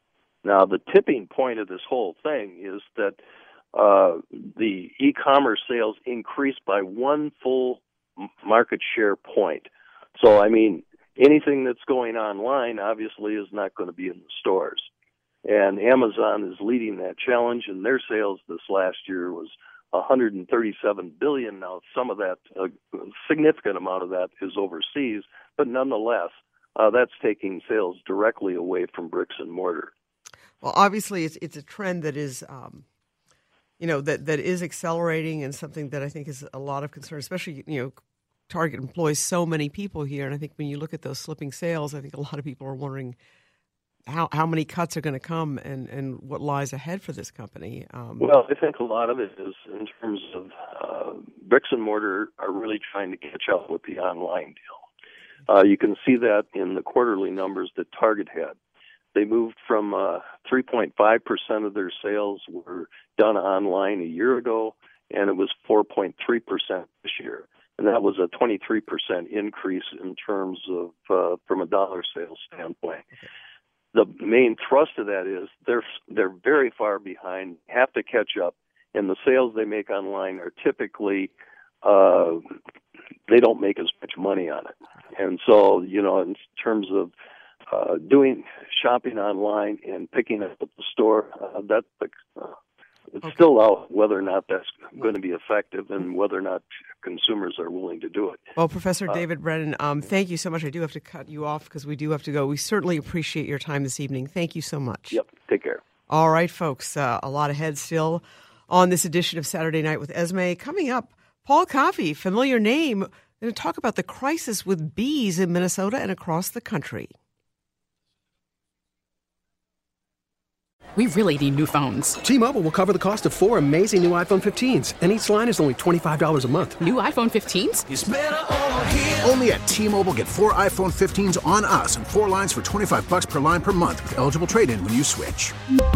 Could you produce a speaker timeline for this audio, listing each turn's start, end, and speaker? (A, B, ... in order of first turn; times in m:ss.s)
0:00.4-0:03.2 A
0:03.7-0:14.9 A
0:15.4-0:29.9 A
0:30.6-0:32.8 B
0:33.8-0:38.0 B
0:38.5-0:43.2 B
0:44.1-0:48.3 B
0:48.2-0:54.8 A
0:55.5-0:58.6 A
0:59.2-1:13.1 A
1:13.9-1:21.3 A
1:21.8-1:22.4 A
1:23.3-1:27.1 A
1:27.7-1:32.6 A
1:33.1-1:38.4 A
1:38.6-1:45.2 B
1:45.1-1:45.8 A
1:46.1-1:57.1 B
2:01.0-2:02.2 C
2:02.2-2:06.8 D
2:06.8-2:07.9 C
2:07.9-2:15.6 E